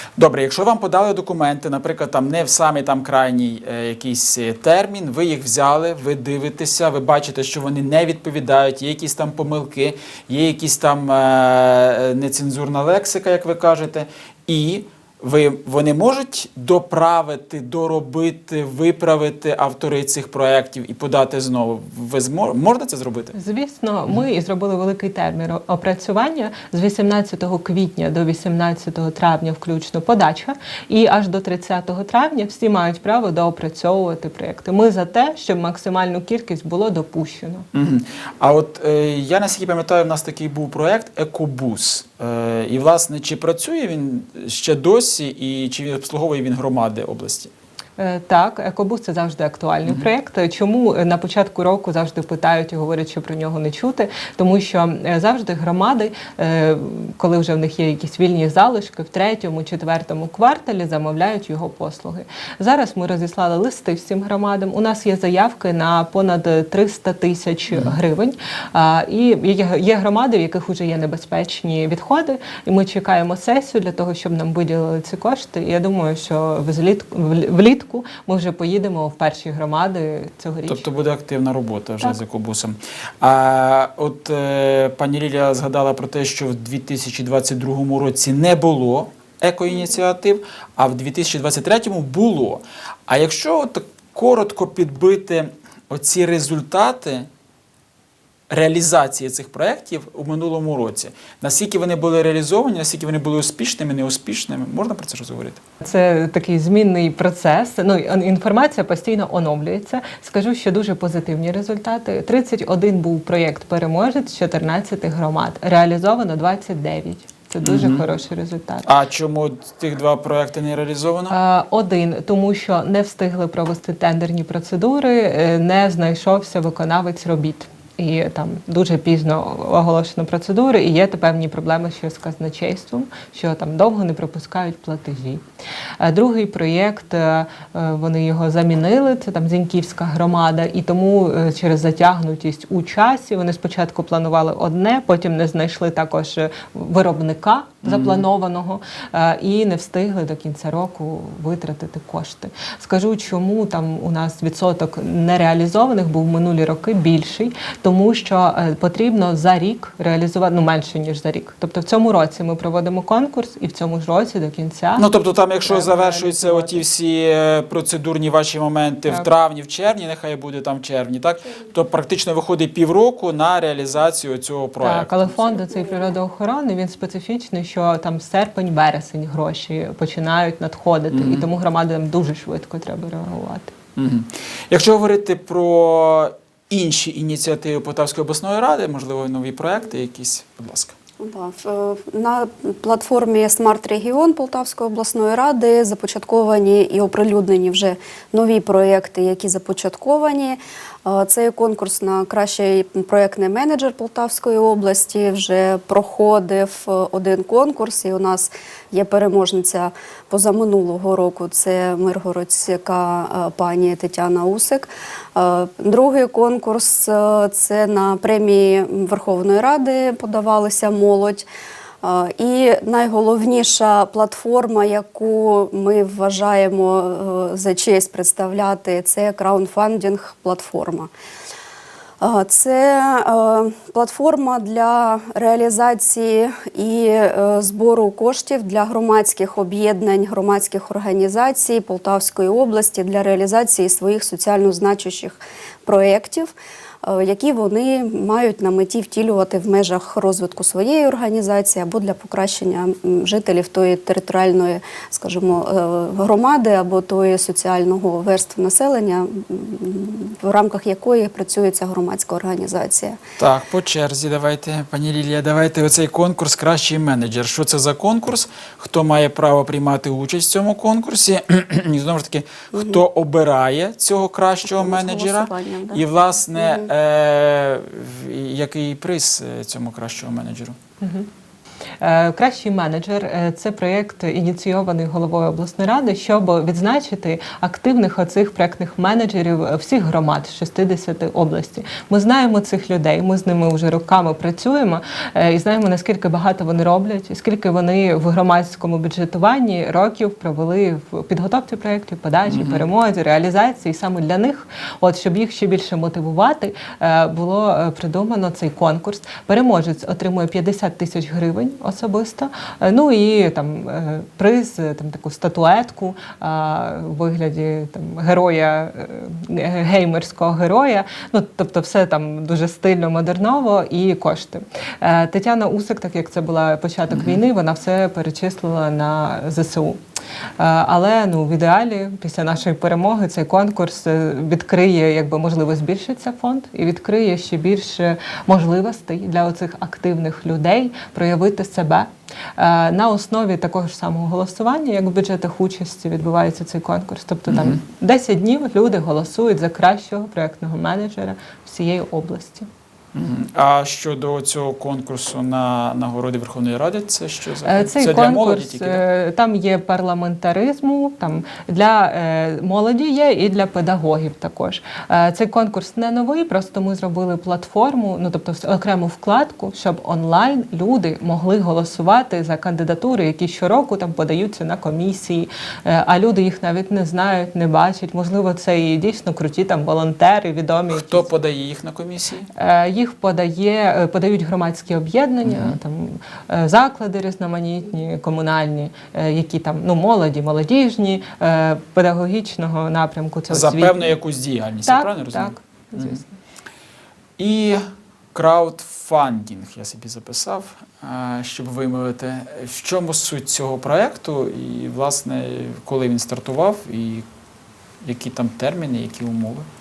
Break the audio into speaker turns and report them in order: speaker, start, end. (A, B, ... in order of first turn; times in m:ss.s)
0:00.2-0:23.3 A
0:23.3-0:37.7 B
0:37.7-0:47.5 A
0:48.0-1:20.8 B
1:07.7-1:08.0 A
1:20.7-1:37.3 A
1:38.5-1:45.6 A
1:45.8-1:58.9 B
1:57.6-1:58.0 A
1:58.8-2:01.3 A
2:01.3-2:15.4 B
2:16.0-2:45.1 B
2:27.8-2:28.2 A
2:45.0-2:55.3 A
2:45.6-2:46.8 B
2:54.8-3:03.7 B
3:01.1-3:01.5 A
3:04.0-3:10.9 A
3:11.2-3:41.5 C
3:42.0-3:51.1 C
3:52.2-4:23.2 C
4:23.4-4:40.8 A
4:32.7-4:33.0 C
4:34.6-4:36.0 C
4:36.6-4:36.9 C
4:41.0-4:41.3 B
4:42.0-5:30.0 B
5:02.5-5:02.9 A
5:27.1-5:27.4 A
5:30.6-5:52.7 B
5:53.1-5:59.0 A
5:57.6-6:21.3 B
6:20.9-6:22.5 A
6:22.5-6:34.1 B
6:25.4-6:25.8 A
6:33.5-6:36.2 A
6:34.8-6:36.3 B
6:37.4-6:37.8 A
6:38.3-6:47.2 A
6:48.0-6:49.7 A